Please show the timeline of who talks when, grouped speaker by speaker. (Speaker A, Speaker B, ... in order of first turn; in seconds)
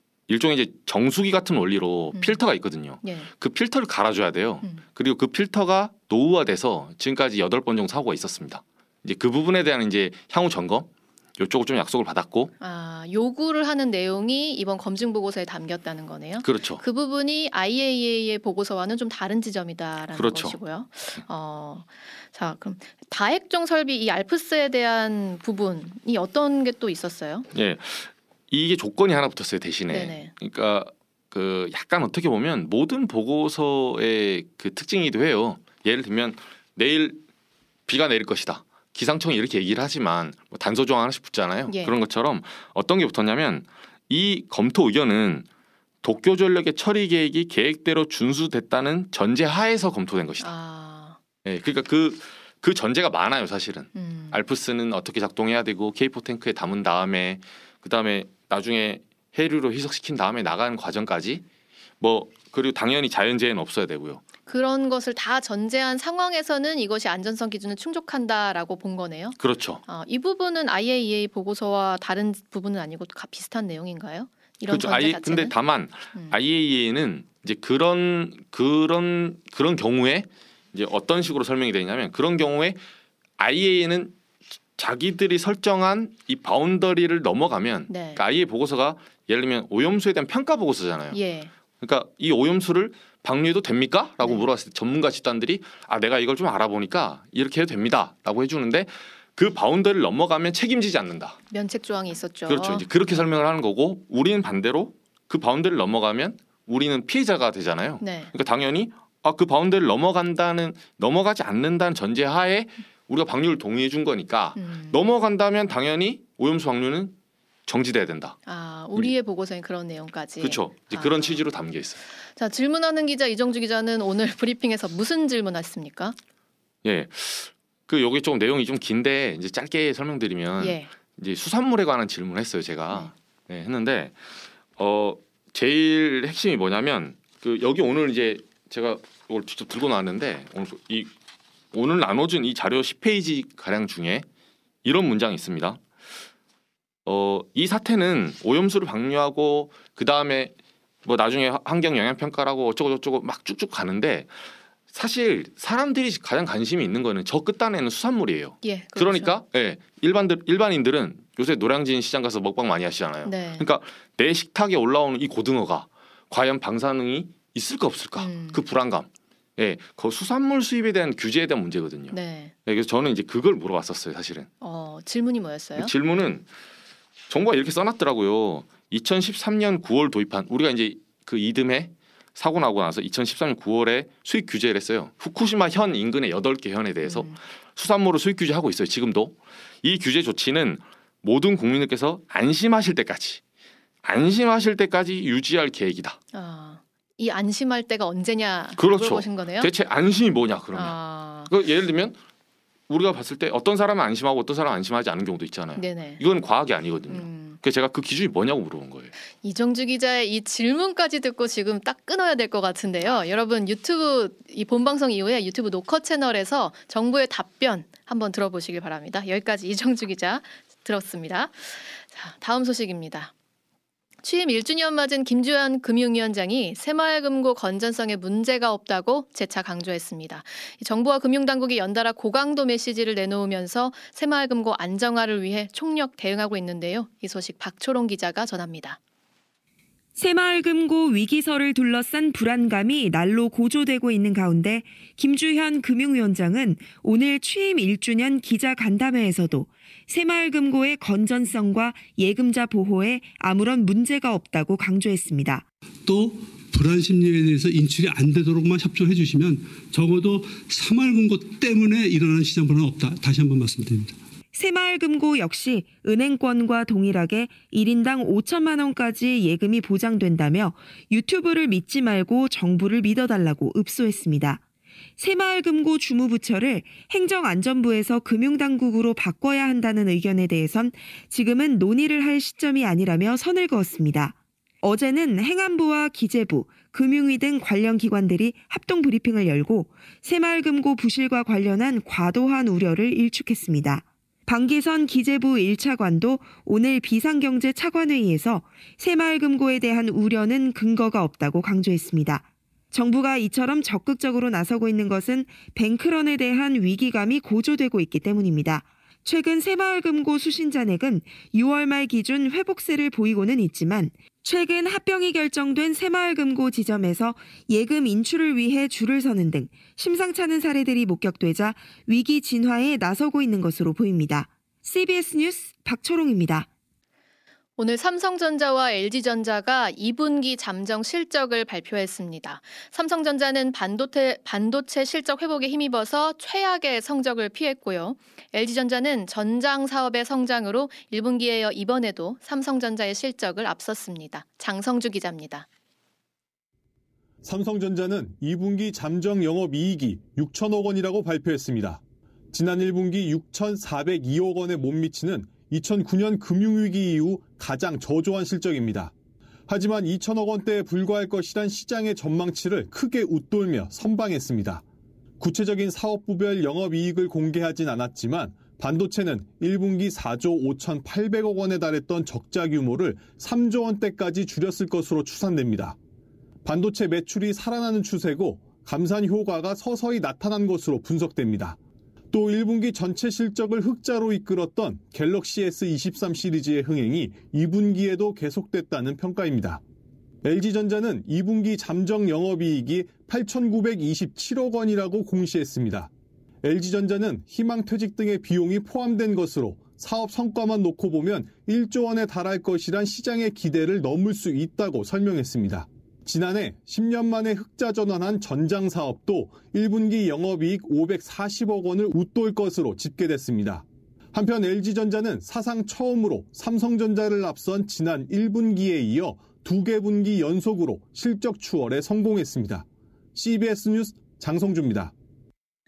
Speaker A: 0.3-12.5, 16.4-16.8, 20.1-20.6, 27.5-37.2, 37.9-45.5, 46.0-50.5, 51.5-61.4, 62.0-64.2, 69.4-69.8, 74.7-82.8, 83.4-84.2, 84.8-91.2, 91.8-101.4, 102.5-117.2, 117.7-118.4, 120.4-122.0, 126.8-134.2, 134.8-141.1, 141.7-144.3, 144.8-145.8, 147.1-150.5, 151.1-174.5, 175.8-176.5, 177.3-193.4, 194.0-196.2, 198.8-201.0, 201.5-202.2, 202.9-209.1
Speaker B: 2.1-2.4, 3.0-3.3, 12.6-27.5, 29.9-30.3, 41.7-41.9, 50.4-51.2, 54.0-54.4, 64.5-75.5, 87.9-88.2, 91.1-91.5, 101.5-102.8, 108.0-108.3, 114.6-115.0, 118.5-121.4, 122.1-126.2, 130.6-130.9, 158.6-159.3, 163.2-163.7, 168.2-168.6, 172.1-172.5, 174.6-175.9, 187.1-187.4, 196.3-199.7, 200.7-201.5, 205.8-206.2, 207.1-207.6, 209.4-223.3, 224.2-239.0, 327.8-345.7
Speaker C: 240.2-255.7, 264.5-274.6, 275.2-326.7
Speaker D: 256.1-264.2
Speaker E: 347.4-352.0, 352.5-359.1, 359.7-364.8, 365.4-376.0, 376.6-381.8, 382.3-389.8, 390.4-396.1, 396.6-425.1